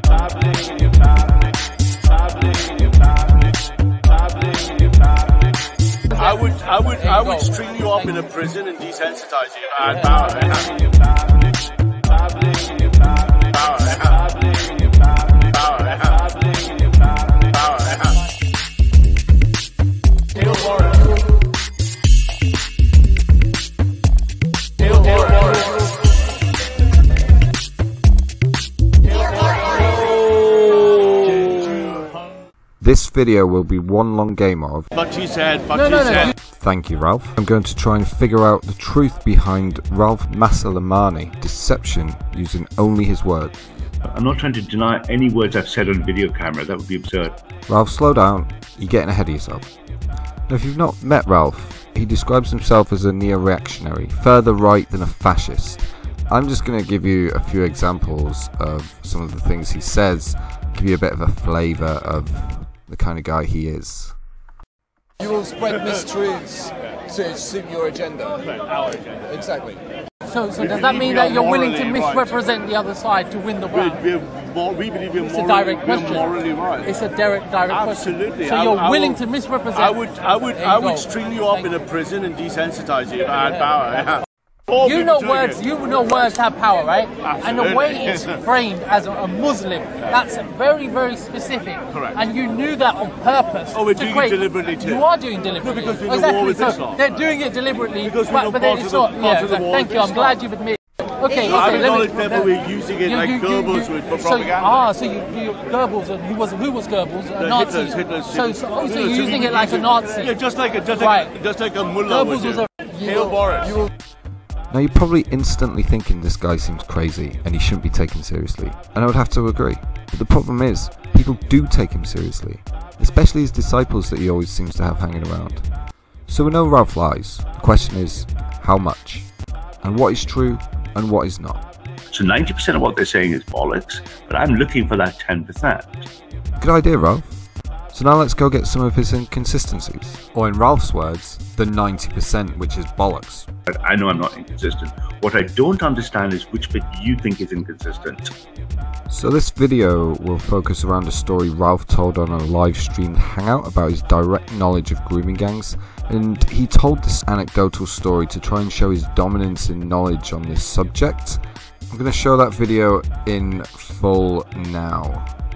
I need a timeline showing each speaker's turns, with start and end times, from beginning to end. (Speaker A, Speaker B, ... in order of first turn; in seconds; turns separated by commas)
Speaker A: 6.1-8.4, Speaker B: 6.2-10.6, Speaker A: 9.8-10.3, Speaker C: 32.8-34.9, Speaker B: 35.0-36.3, Speaker A: 35.7-36.3, Speaker C: 36.6-43.6, Speaker D: 44.1-47.4, Speaker C: 47.7-49.7, Speaker C: 50.5-64.2, Speaker E: 65.2-68.4, Speaker B: 68.6-69.0, Speaker E: 69.3-69.8, Speaker A: 70.3-74.1, Speaker B: 70.6-72.3, Speaker B: 73.7-76.9, Speaker A: 75.2-81.8, Speaker B: 77.7-79.2, Speaker B: 79.7-86.3, Speaker A: 83.3-84.1, Speaker A: 84.8-111.5, Speaker B: 87.2-88.4, Speaker B: 91.9-92.2, Speaker B: 93.7-95.0, Speaker B: 95.6-97.1, Speaker B: 98.0-100.4, Speaker B: 101.4-104.8, Speaker B: 107.4-113.8, Speaker A: 112.0-112.7, Speaker C: 114.7-125.7, Speaker C: 126.3-129.3, Speaker C: 129.8-131.7, Speaker D: 132.1-136.1, Speaker C: 136.6-143.5, Speaker D: 143.7-148.3, Speaker C: 149.1-161.4, Speaker C: 161.9-165.3